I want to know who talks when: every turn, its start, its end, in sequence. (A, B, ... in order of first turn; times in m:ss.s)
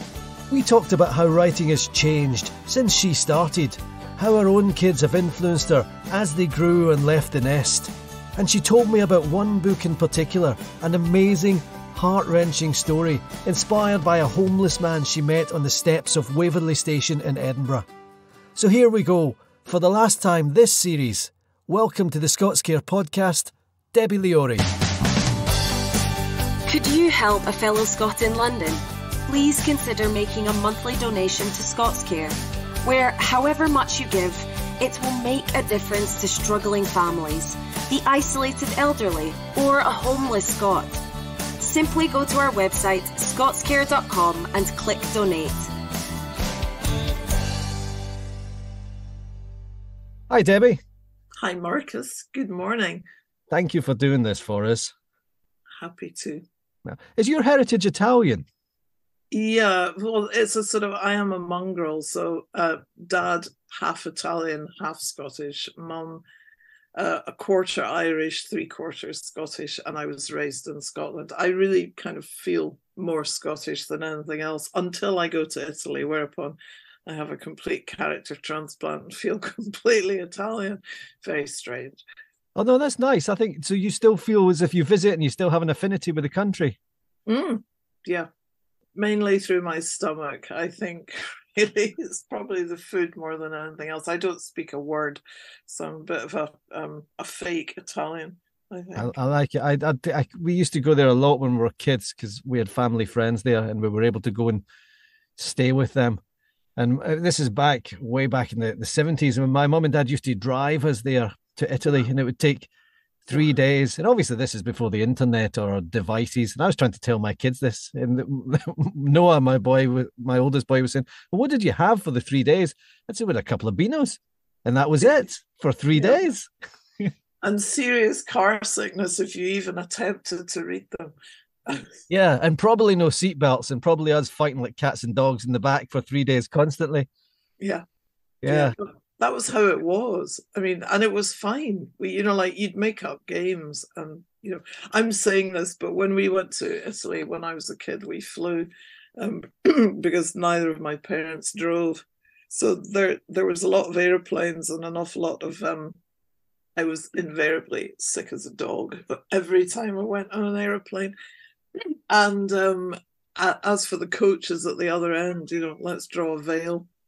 0:00.5-0:17.9 A
0:18.6-0:24.7 A
0:26.7-0:41.0 B
0:41.6-0:45.7 B
0:50.3-0:50.8 A
0:51.4-0:53.0 C
0:53.5-0:54.9 A
0:55.8-0:56.4 C
0:56.8-0:58.5 A
0:59.3-1:06.2 C
1:07.0-1:22.0 C
1:22.6-1:26.8 A
1:27.3-1:28.3 C
1:29.0-1:39.2 C
1:39.0-1:44.6 A
1:45.4-1:46.2 A
1:46.8-1:52.7 A
1:53.3-2:07.1 A
2:06.0-2:06.2 C
2:07.4-2:11.1 C
2:11.7-2:12.0 C
2:12.1-2:17.1 A
2:18.4-2:18.8 A
2:18.4-2:36.0 C
2:36.8-2:41.1 C
2:42.1-2:46.9 C